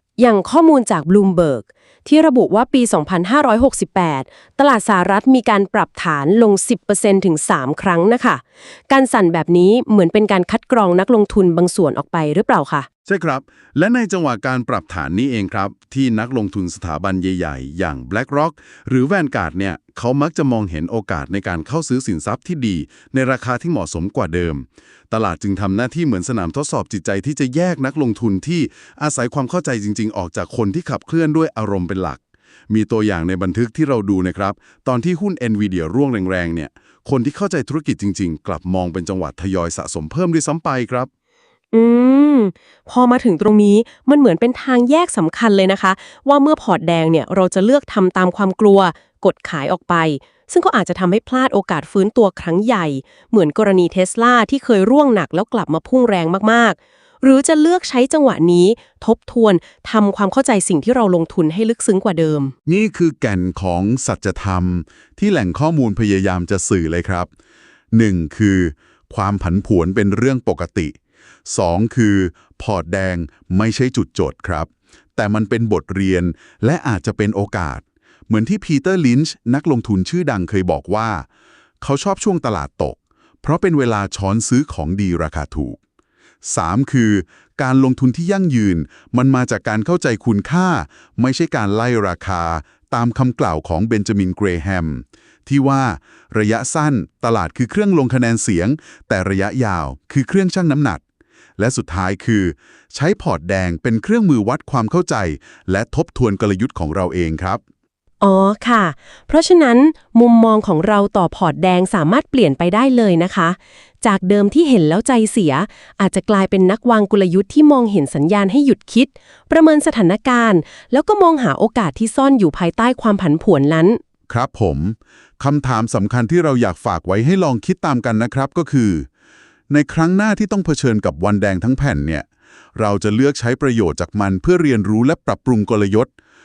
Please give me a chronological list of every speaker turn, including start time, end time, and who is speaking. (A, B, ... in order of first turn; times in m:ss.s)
0:00.2-0:12.9 A
0:13.1-0:41.1 B
0:41.7-1:02.5 A
1:02.7-1:07.3 B
1:07.9-1:11.0 B
1:11.5-1:21.3 B
1:21.8-1:25.8 B
1:26.4-1:41.0 B
1:41.6-1:47.6 B
1:48.2-2:04.0 A
2:04.3-2:09.1 B
2:09.7-2:16.1 B